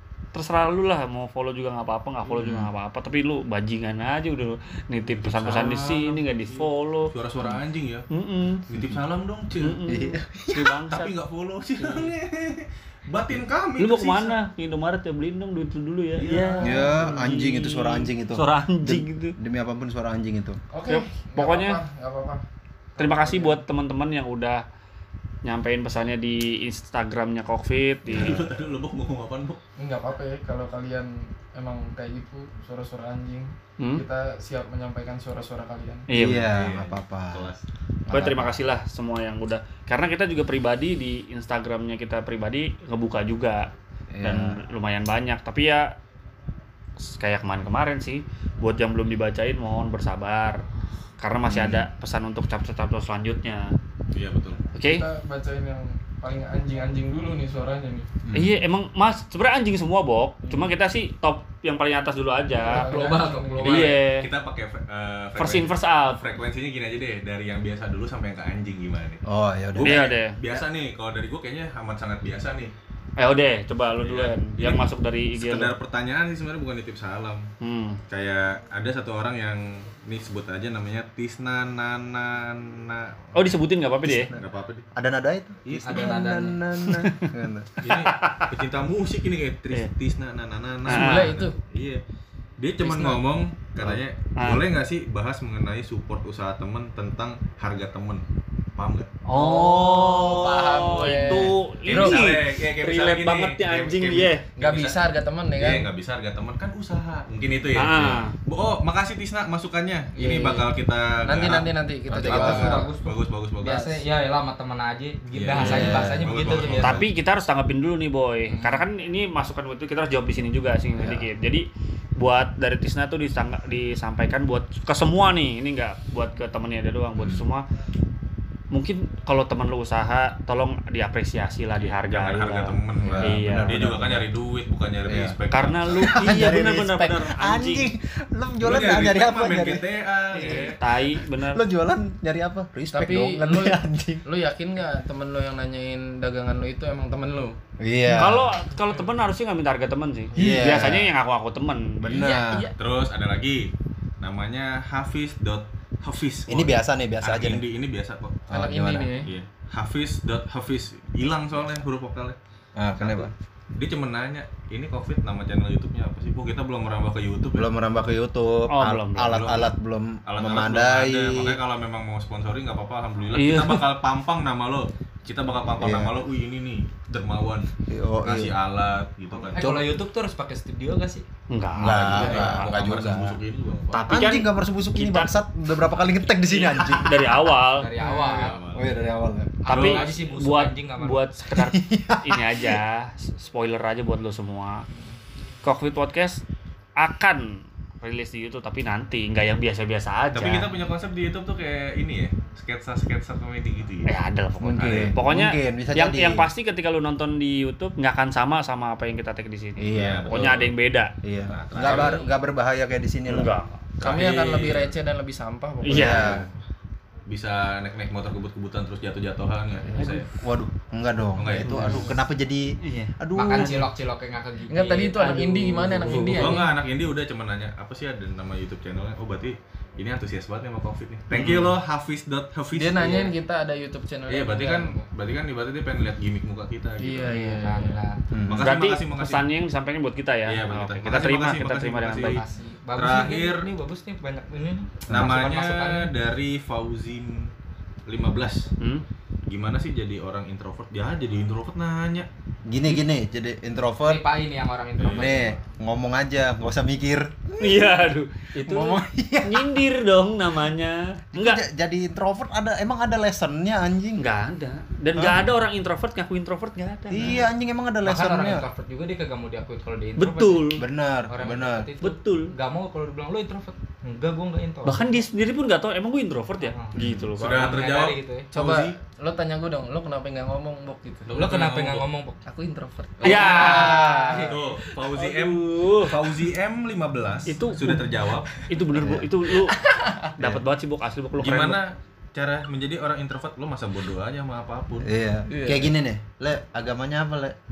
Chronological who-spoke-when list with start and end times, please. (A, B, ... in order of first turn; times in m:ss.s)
0:00.3-0:07.1 A
0:02.3-0:02.7 B
0:05.1-0:08.1 C
0:08.1-0:08.6 A
0:08.7-0:09.8 C
0:09.6-0:11.1 A
0:09.9-0:10.8 B
0:10.9-0:14.4 C
0:11.8-0:12.1 A
0:13.8-0:19.4 A
0:16.2-0:16.9 C
0:16.6-0:20.6 B
0:20.7-0:22.4 D
0:20.9-0:21.8 A
0:23.0-0:23.6 D
0:23.0-0:24.6 A
0:25.4-0:28.4 A
0:28.1-0:28.4 B
0:28.1-0:29.6 C
0:29.8-0:36.1 D
0:33.8-0:34.0 A
0:36.1-0:36.6 A
0:36.1-0:37.5 B
0:36.4-0:37.6 C
0:38.1-0:38.6 B
0:38.1-0:46.0 A
0:44.1-0:44.6 B
0:47.0-0:50.6 A
0:51.2-0:53.8 A
0:51.4-0:51.9 B
0:54.1-0:54.6 C
0:54.7-0:55.1 A
0:54.8-0:58.1 D
0:58.3-0:58.6 B
0:58.3-1:02.9 A
1:02.6-1:04.0 D
1:02.8-1:03.6 E
1:03.6-1:09.2 C
1:03.6-1:04.3 A
1:05.4-1:06.3 A
1:09.3-1:10.0 B
1:09.7-1:12.7 C
1:09.8-1:10.4 A
1:13.2-1:15.8 A
1:14.0-1:17.5 C
1:17.6-1:18.0 A
1:18.1-1:23.6 C
1:23.4-1:24.3 A
1:24.0-1:24.4 B
1:24.4-1:24.9 C
1:25.0-1:27.7 B
1:25.6-1:26.2 C
1:25.8-1:26.6 E
1:26.8-1:27.3 A
1:27.8-1:32.0 C
1:27.9-1:28.5 A
1:30.9-1:31.6 D
1:30.9-1:31.4 A
1:32.6-1:38.2 C
1:32.8-1:33.2 D
1:33.9-1:34.6 A
1:38.8-1:39.1 C
1:39.3-1:44.4 A
1:39.3-1:42.2 D
1:40.2-1:45.0 C
1:44.6-1:45.9 D
1:45.6-1:53.9 C
1:47.8-1:48.4 A
1:50.2-1:50.7 D
1:51.2-1:52.9 D
1:52.1-1:52.8 B
1:52.3-1:57.0 E
1:53.6-1:54.1 D
1:55.3-1:57.1 C
1:55.6-1:57.0 B
1:56.8-2:07.6 A
1:58.5-1:58.8 D
2:01.0-2:01.3 B
2:07.2-2:07.4 C
2:08.7-2:13.8 A
2:11.8-2:16.0 C
2:13.0-2:14.3 B
2:15.0-2:15.4 B
2:15.5-2:17.9 A
2:15.9-2:19.9 B
2:18.6-2:20.8 C
2:20.3-2:21.6 A
2:20.8-2:24.2 B
2:22.9-2:27.6 D
2:27.8-2:28.5 B
2:28.1-2:32.2 A
2:30.4-2:31.1 B
2:32.0-2:32.7 B
2:32.1-2:32.8 D
2:32.8-2:38.5 C
2:36.5-2:37.6 B
2:38.5-2:39.1 B
2:38.5-2:39.3 D
2:39.2-2:42.4 C
2:42.8-2:43.3 B
2:43.0-2:47.7 C
2:47.6-2:51.6 B
2:48.7-2:49.4 A
2:49.2-2:49.7 C
2:50.3-2:59.7 C
2:53.4-2:53.9 A
2:55.8-2:56.2 B
2:57.9-2:58.6 B
2:59.6-3:00.0 B
2:59.6-3:01.2 E
3:01.5-3:02.8 A
3:01.8-3:04.1 C
3:01.8-3:03.4 B
3:03.9-3:07.2 B
3:04.1-3:05.3 A
3:06.5-3:07.1 E
3:06.9-3:07.9 A
3:07.6-3:08.6 E
3:08.0-3:08.4 D
3:08.3-3:09.0 C
3:08.6-3:09.6 B
3:09.6-3:11.3 E
3:09.7-3:10.2 C
3:09.7-3:14.9 A
3:11.5-3:12.8 B
3:15.6-3:16.4 A
3:17.0-3:20.7 A
3:20.3-3:24.1 C
3:24.1-3:31.1 A
3:24.6-3:26.5 B
3:29.8-3:30.5 B
3:29.9-3:30.8 C
3:31.2-3:33.5 B
3:31.5-3:32.2 C
3:31.9-3:32.3 D
3:33.3-3:33.8 A
3:34.0-3:35.0 C
3:34.0-3:36.4 D
3:35.8-3:36.4 A
3:35.9-3:36.5 B
3:37.3-3:40.3 C
3:39.9-3:40.2 A
3:40.4-3:43.9 B
3:41.4-3:42.1 C
3:41.6-3:42.1 A
3:42.8-3:43.8 A
3:43.4-3:45.3 E
3:44.7-3:46.7 D
3:45.2-3:46.6 A
3:46.1-3:53.4 C
3:51.3-3:51.7 B
3:52.7-3:55.0 D
3:54.3-3:57.3 C
3:57.0-3:58.1 D
3:57.3-3:58.2 E
3:58.3-3:58.7 B
3:58.5-3:59.5 C
3:58.6-4:02.4 A
4:00.5-4:02.4 C
4:02.2-4:06.1 E
4:03.0-4:03.7 C
4:05.1-4:05.4 B
4:05.1-4:07.5 C
4:08.1-4:08.7 C
4:09.5-4:12.3 C
4:12.7-4:14.2 B
4:14.1-4:15.5 E
4:15.0-4:15.4 C
4:15.0-4:18.0 B
4:17.6-4:21.6 A
4:18.6-4:19.8 B
4:21.3-4:24.3 B
4:24.2-4:27.4 A
4:25.2-4:25.5 B
4:27.1-4:28.7 B
4:28.0-4:30.8 E
4:30.2-4:30.8 A
4:30.8-4:31.9 B
4:31.3-4:35.2 E
4:32.0-4:32.5 A
4:34.8-4:37.6 A
4:36.6-4:38.5 E
4:37.0-4:37.3 B
4:37.4-4:39.0 C
4:38.5-4:41.4 D
4:41.3-4:42.1 C
4:41.4-4:42.4 E
4:42.5-4:44.9 D
4:43.2-4:44.6 E
4:43.2-4:44.0 A
4:43.5-4:44.5 B
4:44.4-4:48.5 C
4:45.1-4:46.1 A
4:47.5-4:48.0 A
4:48.7-4:49.8 A
4:48.9-4:49.3 B
4:49.7-4:50.3 D
4:50.4-4:51.8 A
4:51.4-4:55.1 C
4:55.0-4:57.6 B
4:55.5-4:55.9 D